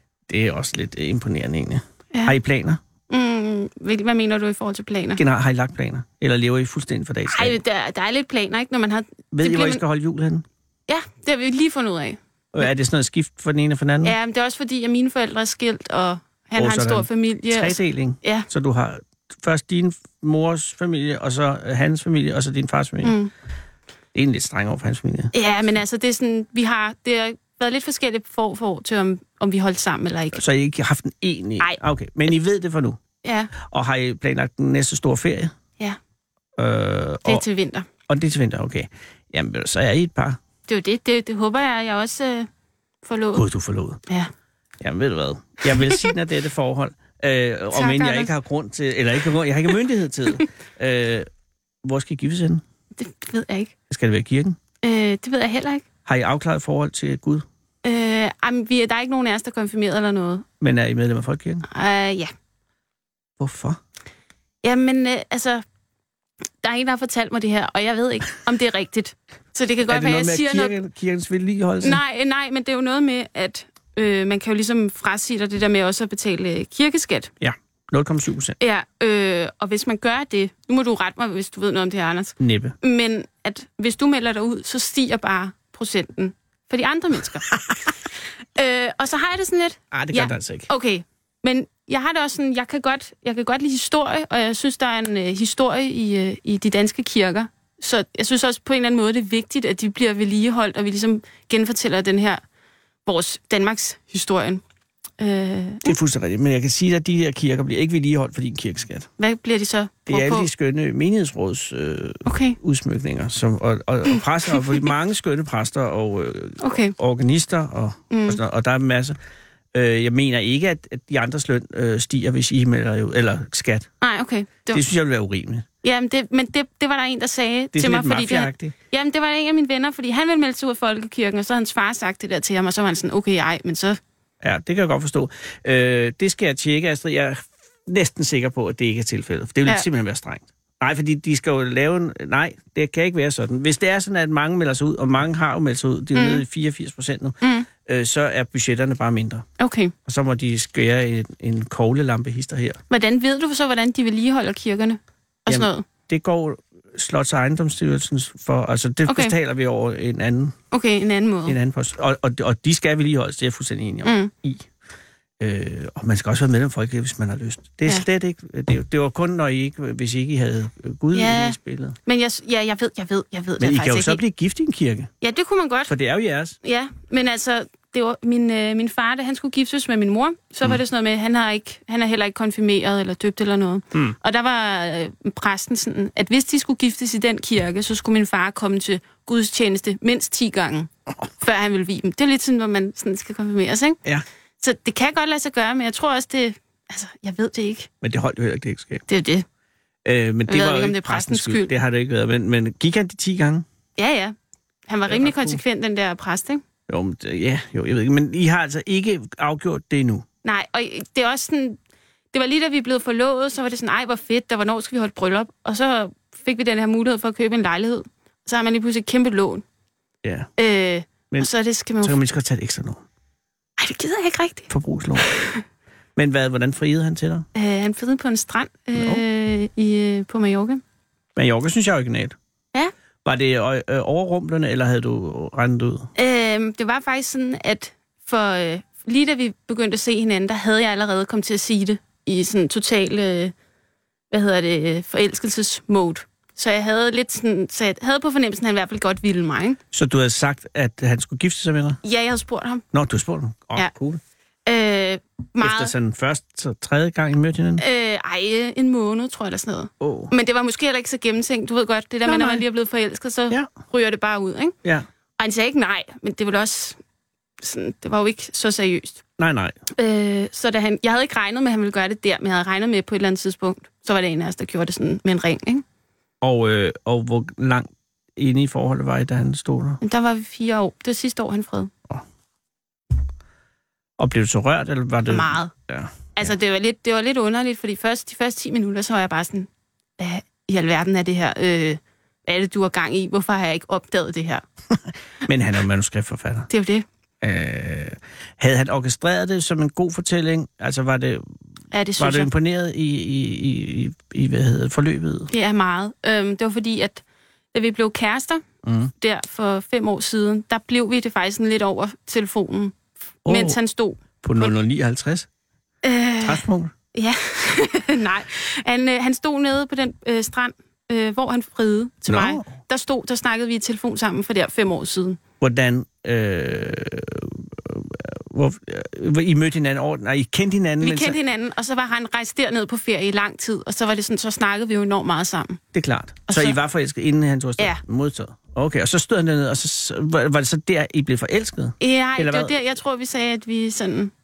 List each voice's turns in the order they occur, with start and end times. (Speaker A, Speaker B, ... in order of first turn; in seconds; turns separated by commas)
Speaker A: 0.3-2.8, Speaker B: 3.1-5.2, Speaker A: 5.2-7.6, Speaker B: 7.3-9.8, Speaker A: 9.3-10.4, Speaker B: 10.9-12.7, Speaker A: 12.5-14.2, Speaker B: 14.0-18.5, Speaker A: 16.6-23.1, Speaker B: 23.0-23.3, Speaker A: 24.1-25.3, Speaker B: 25.3-30.4, Speaker A: 30.3-33.0, Speaker B: 33.2-33.5, Speaker A: 33.6-35.5, Speaker A: 36.6-37.4, Speaker B: 37.2-37.9, Speaker A: 38.1-40.4, Speaker B: 40.7-42.5, Speaker B: 43.0-43.4, Speaker A: 43.3-44.0, Speaker A: 44.8-51.3, Speaker B: 47.7-48.3, Speaker A: 51.8-52.6, Speaker B: 53.0-53.7, Speaker A: 53.9-54.6, Speaker B: 54.8-55.8, Speaker A: 56.0-57.5, Speaker B: 57.8-60.5, Speaker A: 60.6-61.6, Speaker B: 61.7-62.3, Speaker A: 63.4-63.8, Speaker B: 64.6-65.6, Speaker B: 66.6-70.8, Speaker A: 69.8-72.0, Speaker B: 71.8-77.3, Speaker A: 77.4-78.6, Speaker B: 78.6-87.5, Speaker A: 82.4-82.7, Speaker B: 88.5-102.4, Speaker A: 89.9-90.7, Speaker B: 103.0-104.6, Speaker B: 105.2-105.9, Speaker A: 105.8-109.1, Speaker B: 109.2-110.5, Speaker A: 110.1-119.2, Speaker B: 112.2-112.6, Speaker B: 114.1-114.8, Speaker B: 116.6-116.9, Speaker B: 118.1-118.4, Speaker A: 119.7-123.9, Speaker B: 124.0-124.8, Speaker A: 124.7-125.7, Speaker B: 125.8-134.0, Speaker A: 127.7-128.7, Speaker A: 134.4-149.4, Speaker B: 146.1-146.4, Speaker B: 147.4-147.7, Speaker B: 149.6-149.9, Speaker A: 150.1-152.8, Speaker B: 152.9-155.8, Speaker A: 155.5-160.6, Speaker B: 159.1-159.3, Speaker B: 160.7-161.6, Speaker A: 161.4-164.7, Speaker B: 164.0-164.3, Speaker A: 165.4-171.9, Speaker B: 171.1-174.2, Speaker A: 173.6-175.1, Speaker B: 175.2-175.9, Speaker A: 175.9-176.6, Speaker B: 176.6-194.0, Speaker B: 194.6-197.9, Speaker A: 198.0-199.0, Speaker B: 199.1-199.4, Speaker A: 200.0-203.7, Speaker B: 200.5-201.7, Speaker B: 204.0-204.3, Speaker B: 204.9-206.6, Speaker A: 205.1-205.6, Speaker A: 206.9-210.2, Speaker B: 210.4-211.8, Speaker B: 212.3-219.6, Speaker A: 220.2-220.5, Speaker B: 220.6-222.2, Speaker A: 222.0-223.0, Speaker B: 223.8-225.6, Speaker A: 224.7-225.3, Speaker A: 226.2-227.5, Speaker B: 227.5-230.8, Speaker A: 228.9-229.2, Speaker A: 231.3-232.3, Speaker A: 233.2-236.1, Speaker B: 236.2-243.5, Speaker B: 244.3-249.8, Speaker A: 249.9-252.0, Speaker B: 252.0-252.8, Speaker A: 252.9-254.2, Speaker B: 254.7-255.9, Speaker A: 255.6-257.8, Speaker B: 257.8-264.7, Speaker A: 260.0-260.3, Speaker A: 262.2-262.6, Speaker B: 265.4-267.0, Speaker B: 267.6-269.2, Speaker A: 269.4-269.8, Speaker B: 269.9-275.8, Speaker A: 276.4-280.0, Speaker B: 280.0-281.9, Speaker A: 284.2-286.5, Speaker B: 285.3-285.7, Speaker B: 286.4-289.7, Speaker B: 290.2-294.6, Speaker A: 295.4-296.7, Speaker B: 296.7-297.1, Speaker A: 297.4-301.5, Speaker B: 301.9-302.5, Speaker A: 302.2-305.5, Speaker B: 305.5-308.6, Speaker A: 308.8-309.1, Speaker B: 309.2-314.7, Speaker A: 313.4-313.8, Speaker A: 314.4-315.5, Speaker B: 316.0-325.4, Speaker A: 316.4-316.9, Speaker A: 322.2-322.7, Speaker A: 325.6-331.4, Speaker B: 331.0-335.8, Speaker A: 335.9-342.8, Speaker B: 336.5-336.8, Speaker B: 342.0-344.3